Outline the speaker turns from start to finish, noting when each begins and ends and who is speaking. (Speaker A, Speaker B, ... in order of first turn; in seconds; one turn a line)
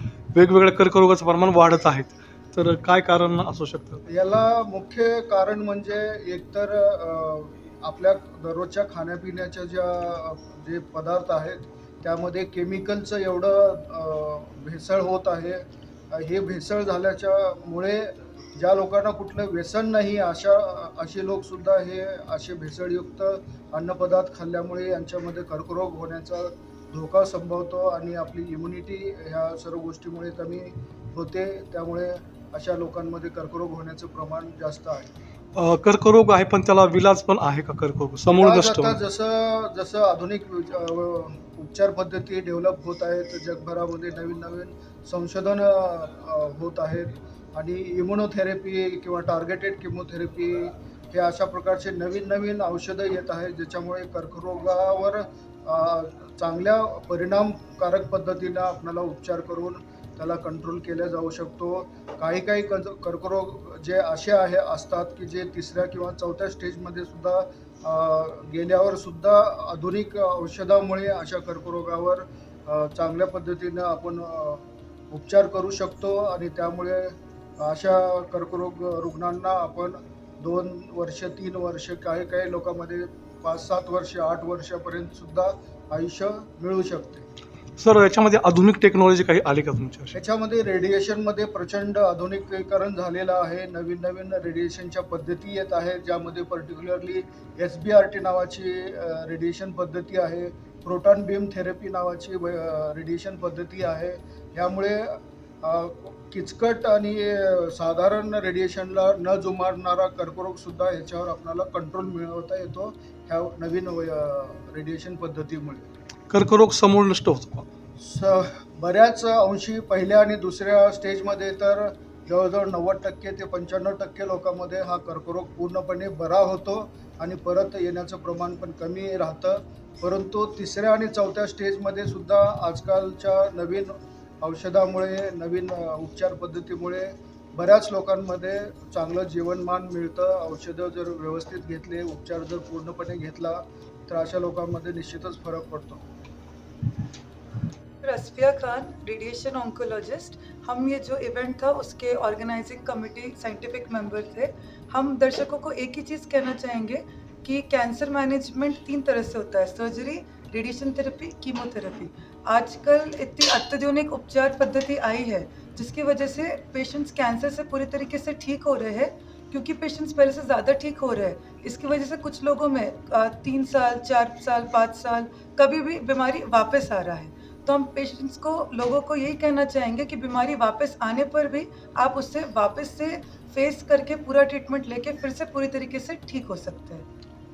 Speaker A: 0.3-4.0
Speaker B: 4.1-35.1
Speaker A: 35.5-39.0
Speaker B: 38.3-87.2
Speaker A: 87.8-90.2
Speaker B: 90.1-115.9
Speaker A: 116.3-117.7
Speaker B: 118.0-146.0
Speaker C: 148.0-187.1